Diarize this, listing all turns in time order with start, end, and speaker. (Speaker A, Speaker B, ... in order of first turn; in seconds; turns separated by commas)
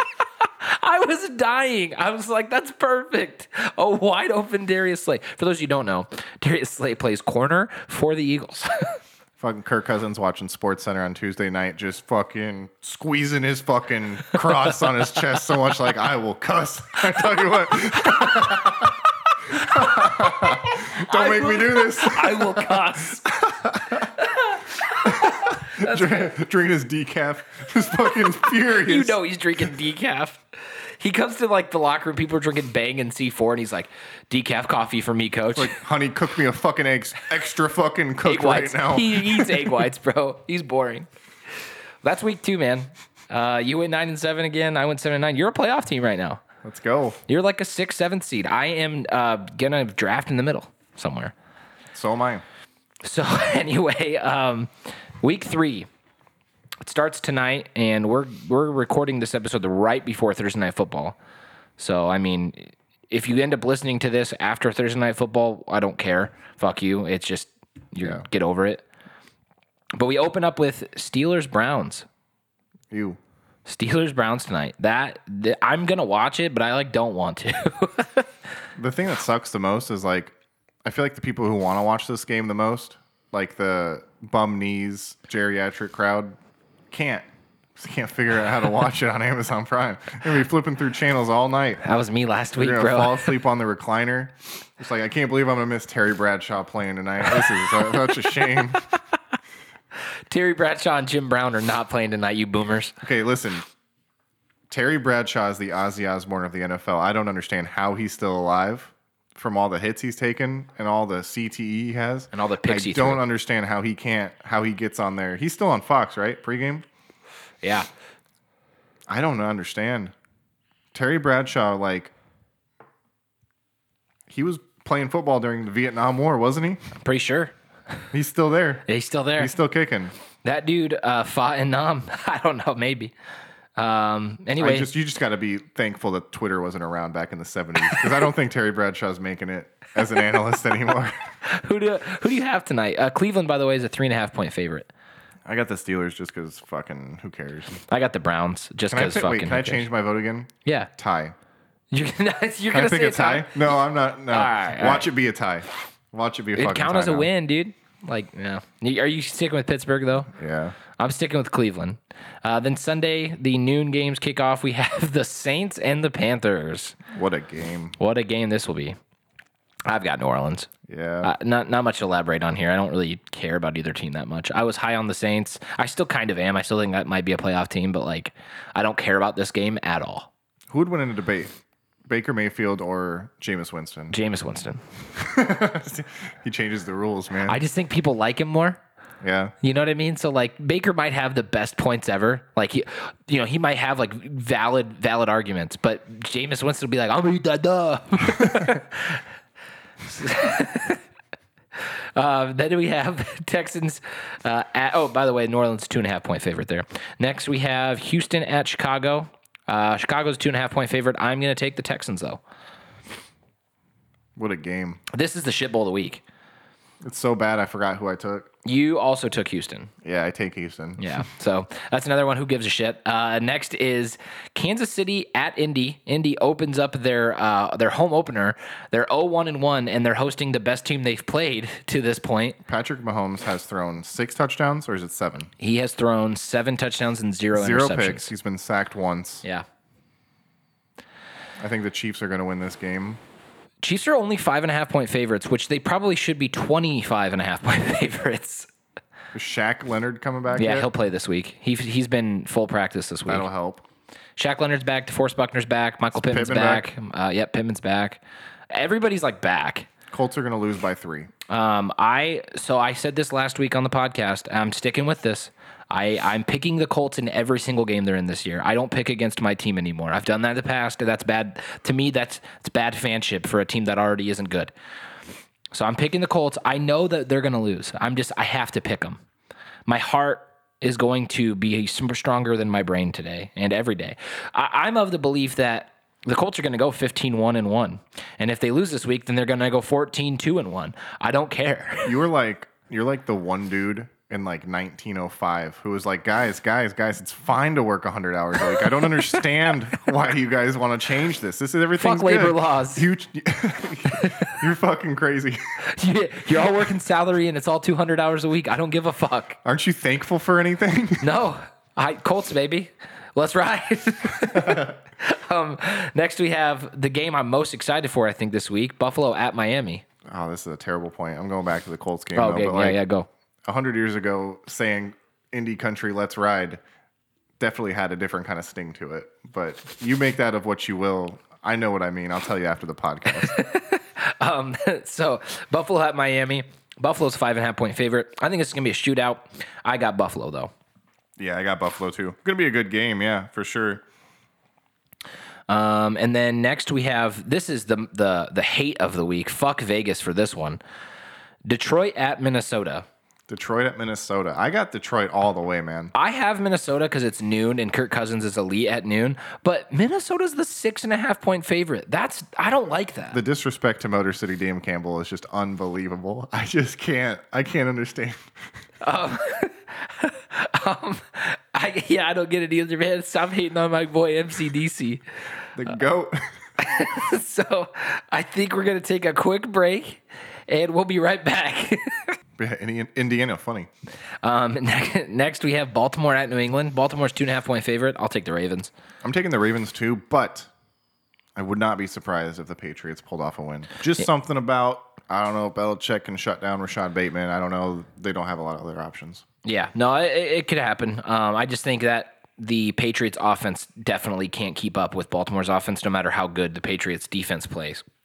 Speaker A: 0.4-8.9, Speaker B: 9.4-19.0, Speaker A: 18.1-18.6, Speaker B: 19.5-24.1, Speaker A: 19.6-26.3, Speaker B: 25.0-29.2, Speaker A: 28.7-35.8, Speaker B: 35.5-39.9, Speaker A: 38.2-41.1, Speaker A: 42.0-46.4, Speaker B: 46.6-47.2, Speaker A: 47.3-51.3, Speaker B: 51.9-52.4, Speaker A: 53.0-55.9, Speaker A: 56.8-61.2, Speaker A: 61.8-68.8, Speaker A: 70.0-72.1, Speaker B: 72.9-73.2, Speaker A: 73.7-78.3, Speaker B: 78.8-80.3, Speaker B: 80.8-86.4, Speaker B: 86.9-91.8, Speaker A: 91.8-93.4, Speaker B: 92.6-98.9, Speaker A: 100.3-103.0, Speaker B: 103.0-103.7, Speaker B: 104.7-116.8, Speaker A: 112.3-113.2, Speaker A: 117.6-117.9, Speaker B: 119.1-120.1, Speaker B: 120.9-122.1, Speaker B: 124.3-126.8, Speaker A: 127.0-127.5, Speaker B: 128.1-128.8, Speaker A: 128.9-129.6, Speaker B: 129.4-130.1, Speaker A: 130.4-133.1, Speaker A: 133.8-134.9, Speaker B: 134.6-141.2, Speaker A: 141.4-144.9, Speaker B: 145.5-147.8, Speaker A: 147.9-149.9, Speaker B: 148.9-151.4, Speaker A: 151.9-153.6, Speaker B: 152.7-157.3, Speaker A: 154.3-155.1, Speaker A: 156.6-160.3, Speaker B: 160.3-160.8, Speaker A: 161.0-167.0, Speaker B: 167.1-168.0, Speaker A: 168.0-169.0, Speaker A: 169.9-170.7, Speaker B: 170.9-171.3, Speaker A: 171.2-180.3, Speaker B: 180.7-181.5, Speaker B: 182.1-184.2, Speaker A: 184.1-184.8, Speaker B: 185.2-187.6, Speaker A: 187.5-188.8, Speaker B: 189.2-189.5, Speaker A: 189.6-199.2, Speaker A: 200.1-201.0, Speaker A: 202.2-212.4, Speaker B: 214.4-215.0, Speaker A: 215.1-216.2, Speaker B: 217.0-218.5, Speaker A: 218.7-219.9, Speaker B: 220.0-221.2, Speaker A: 221.0-232.6, Speaker B: 232.7-235.5, Speaker A: 235.6-238.3, Speaker B: 237.5-239.4, Speaker B: 241.6-243.2, Speaker A: 243.8-248.7, Speaker B: 249.3-250.9, Speaker A: 250.5-253.5, Speaker B: 253.3-253.8, Speaker A: 254.4-258.2, Speaker B: 256.1-256.9, Speaker A: 258.7-259.9, Speaker B: 260.1-261.3, Speaker A: 261.5-274.7, Speaker A: 275.7-279.2, Speaker A: 279.9-292.2, Speaker B: 292.1-305.6, Speaker A: 302.0-303.1, Speaker A: 304.2-304.6, Speaker A: 305.8-309.6, Speaker B: 309.6-311.3, Speaker A: 311.2-320.0, Speaker B: 314.6-314.9, Speaker B: 320.3-323.0, Speaker A: 322.4-323.3, Speaker B: 323.7-326.8, Speaker B: 327.6-333.6, Speaker A: 333.5-340.7, Speaker B: 341.4-344.0, Speaker A: 345.7-350.8, Speaker A: 351.7-353.1, Speaker B: 353.5-356.1, Speaker A: 356.1-363.4, Speaker B: 363.3-368.5, Speaker A: 369.0-375.2, Speaker B: 375.8-376.4, Speaker A: 376.8-382.4, Speaker B: 382.6-383.9, Speaker A: 384.4-388.9, Speaker B: 389.2-390.7, Speaker B: 391.6-399.4, Speaker A: 399.6-408.0